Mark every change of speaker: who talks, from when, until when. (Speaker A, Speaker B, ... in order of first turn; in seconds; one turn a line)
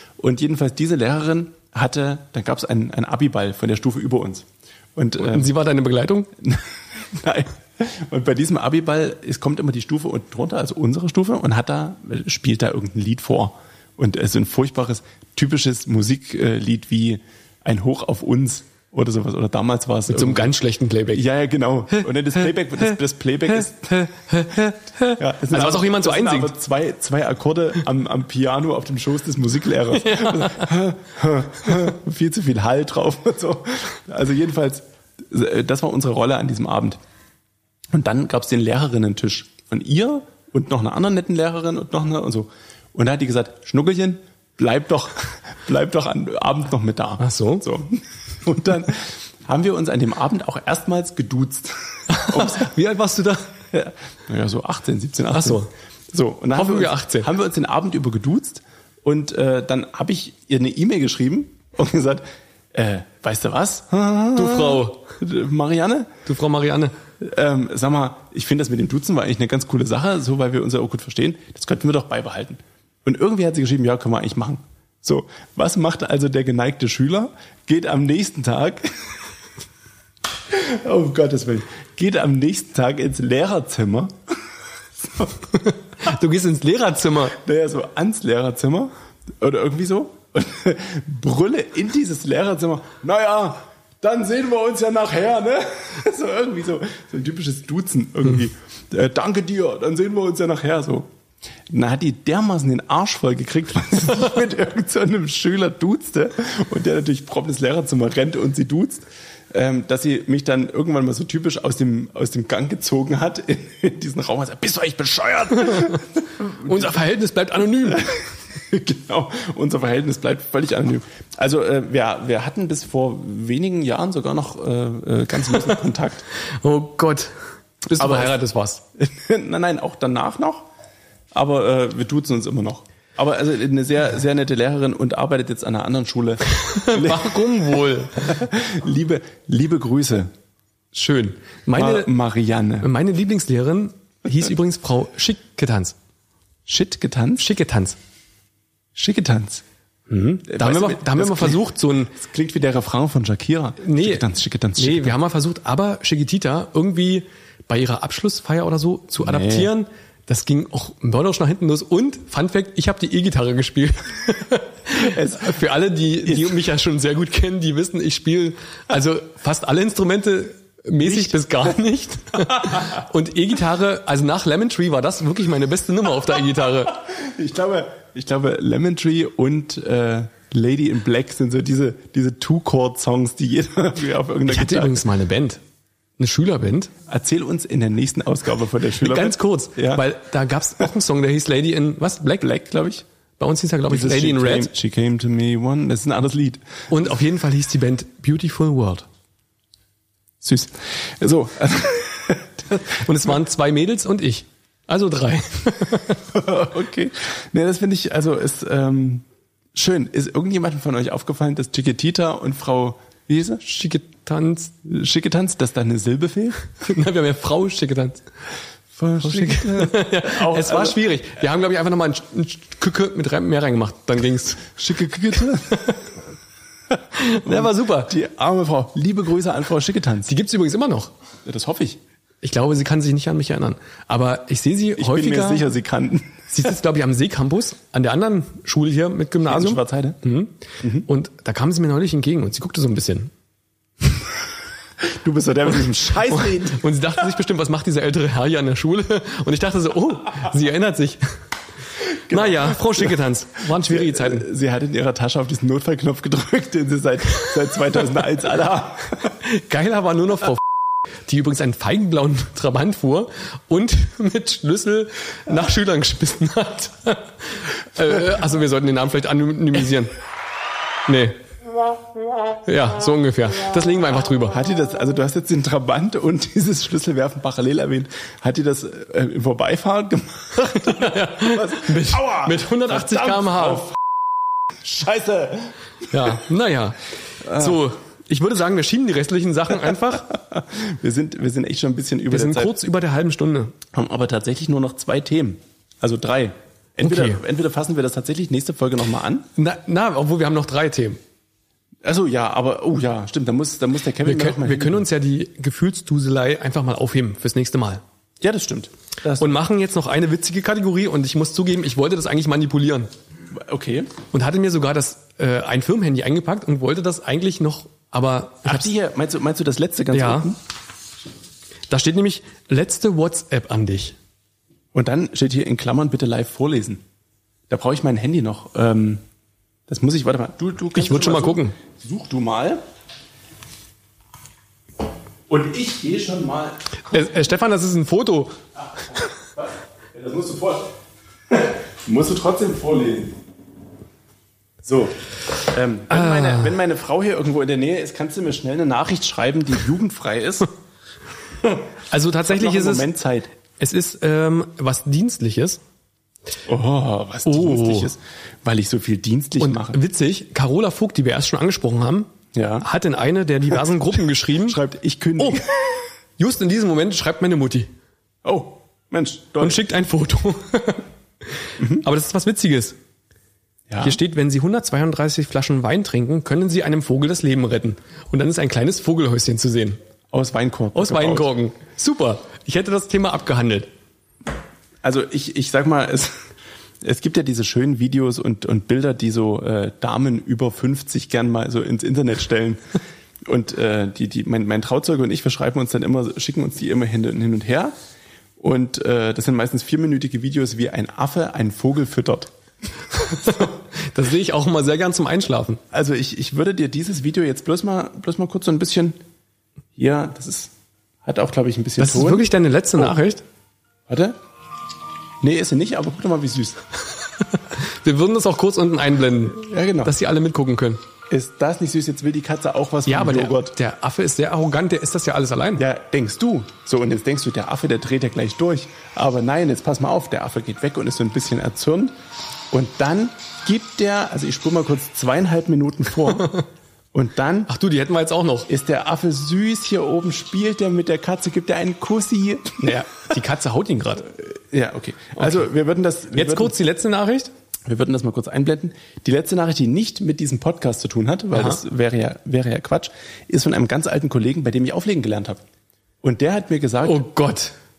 Speaker A: 0.2-5.5
Speaker B: 5.2-6.3
Speaker A: 6.4-20.5
Speaker B: 20.1-21.2
Speaker A: 21.1-24.0
Speaker B: 23.8-26.5
Speaker A: 25.2-37.0
Speaker B: 29.9-30.7
Speaker A: 37.9-52.7
Speaker B: 47.2-47.6
Speaker B: 52.1-53.5
Speaker A: 53.7-66.1
Speaker B: 55.3-55.7
Speaker B: 56.5-57.3
Speaker B: 64.3-65.0
Speaker B: 66.2-66.9
Speaker A: 67.2-79.1
Speaker A: 80.5-84.1
Speaker B: 85.6-87.4
Speaker A: 87.3-101.1
Speaker A: 101.7-117.0
Speaker B: 115.7-118.2
Speaker A: 117.8-126.2
Speaker B: 126.6-127.3
Speaker B: 127.8-128.8
Speaker A: 128.0-128.3
Speaker A: 129.0-130.7
Speaker A: 131.3-137.4
Speaker B: 136.6-138.3
Speaker A: 138.2-140.3
Speaker B: 140.9-142.1
Speaker A: 141.7-142.9
Speaker B: 142.8-145.9
Speaker A: 146.7-147.5
Speaker B: 147.4-148.0
Speaker A: 148.9-149.6
Speaker B: 150.1-152.2
Speaker A: 150.5-151.6
Speaker A: 152.1-155.2
Speaker B: 153.8-154.2
Speaker B: 154.8-177.0
Speaker A: 159.2-159.7
Speaker A: 164.9-165.6
Speaker A: 166.2-166.6
Speaker A: 171.0-171.5
Speaker A: 172.5-173.0
Speaker A: 177.0-185.0
Speaker B: 184.5-185.6
Speaker B: 186.2-186.9
Speaker A: 187.1-190.0
Speaker B: 189.0-192.5
Speaker A: 192.4-193.0
Speaker B: 193.4-194.7
Speaker A: 193.9-196.6
Speaker B: 196.9-199.0
Speaker A: 200.4-202.9
Speaker B: 202.9-206.3
Speaker A: 206.3-213.6
Speaker B: 213.6-214.7
Speaker A: 214.8-216.7
Speaker B: 216.8-218.2
Speaker A: 218.9-221.0
Speaker B: 219.2-224.8
Speaker A: 224.8-225.8
Speaker B: 225.7-226.0
Speaker B: 227.1-228.1
Speaker A: 227.4-230.3
Speaker B: 230.2-231.1
Speaker A: 231.4-232.0
Speaker B: 232.4-235.7
Speaker A: 234.9-236.5
Speaker B: 236.5-243.3
Speaker A: 239.4-240.2
Speaker A: 240.8-241.1
Speaker A: 245.0-246.8
Speaker B: 246.3-251.3
Speaker A: 252.1-253.2
Speaker B: 252.3-254.5
Speaker A: 253.8-259.3
Speaker B: 259.4-260.6
Speaker B: 261.3-270.1
Speaker B: 271.1-271.4
Speaker B: 272.6-274.6
Speaker A: 274.5-284.0
Speaker B: 280.6-283.8
Speaker A: 284.7-285.7
Speaker B: 286.1-290.3
Speaker A: 287.4-287.8
Speaker A: 290.3-292.8
Speaker B: 292.3-293.7
Speaker A: 293.9-299.5
Speaker B: 297.0-297.4
Speaker B: 299.6-301.2
Speaker A: 302.0-305.1
Speaker B: 304.2-308.0
Speaker A: 308.4-309.5
Speaker B: 309.4-313.1
Speaker A: 313.5-314.1
Speaker B: 314.3-318.9
Speaker A: 318.6-320.6
Speaker B: 320.1-320.5
Speaker B: 321.9-324.2
Speaker A: 324.9-327.0
Speaker A: 327.7-329.2
Speaker A: 329.9-332.8
Speaker B: 330.9-331.8
Speaker A: 335.5-337.1
Speaker B: 337.0-338.6
Speaker A: 339.4-340.9
Speaker A: 341.5-343.3
Speaker A: 344.8-350.7
Speaker B: 346.1-346.7
Speaker B: 352.1-353.1
Speaker A: 352.4-353.5
Speaker B: 353.8-355.8
Speaker A: 356.6-360.0
Speaker B: 357.4-358.1
Speaker B: 359.6-364.8
Speaker A: 362.5-362.9
Speaker A: 364.6-366.0
Speaker B: 365.4-365.7
Speaker B: 366.4-367.9
Speaker A: 368.4-369.8
Speaker B: 369.6-371.1
Speaker B: 371.7-373.0
Speaker A: 371.8-372.1
Speaker A: 373.9-374.2
Speaker B: 374.0-380.0
Speaker A: 380.3-381.5
Speaker B: 380.9-383.9
Speaker A: 385.0-386.4
Speaker A: 387.0-392.8
Speaker A: 393.4-397.9
Speaker A: 398.6-402.5
Speaker B: 403.1-405.8
Speaker A: 405.9-409.2
Speaker A: 409.9-410.7
Speaker A: 411.2-413.2
Speaker B: 412.0-413.4
Speaker A: 414.1-414.4
Speaker A: 415.4-416.8
Speaker B: 417.5-421.0
Speaker A: 419.6-420.1
Speaker A: 421.3-423.8
Speaker B: 423.1-425.8
Speaker A: 425.8-432.1
Speaker A: 432.7-436.6
Speaker A: 437.1-437.7
Speaker B: 437.7-438.7
Speaker A: 438.7-442.9
Speaker B: 442.8-444.3
Speaker A: 444.3-446.7
Speaker B: 445.4-445.6
Speaker B: 446.3-447.5
Speaker A: 447.9-455.6
Speaker B: 451.5-451.8
Speaker A: 456.2-457.3
Speaker B: 457.0-457.7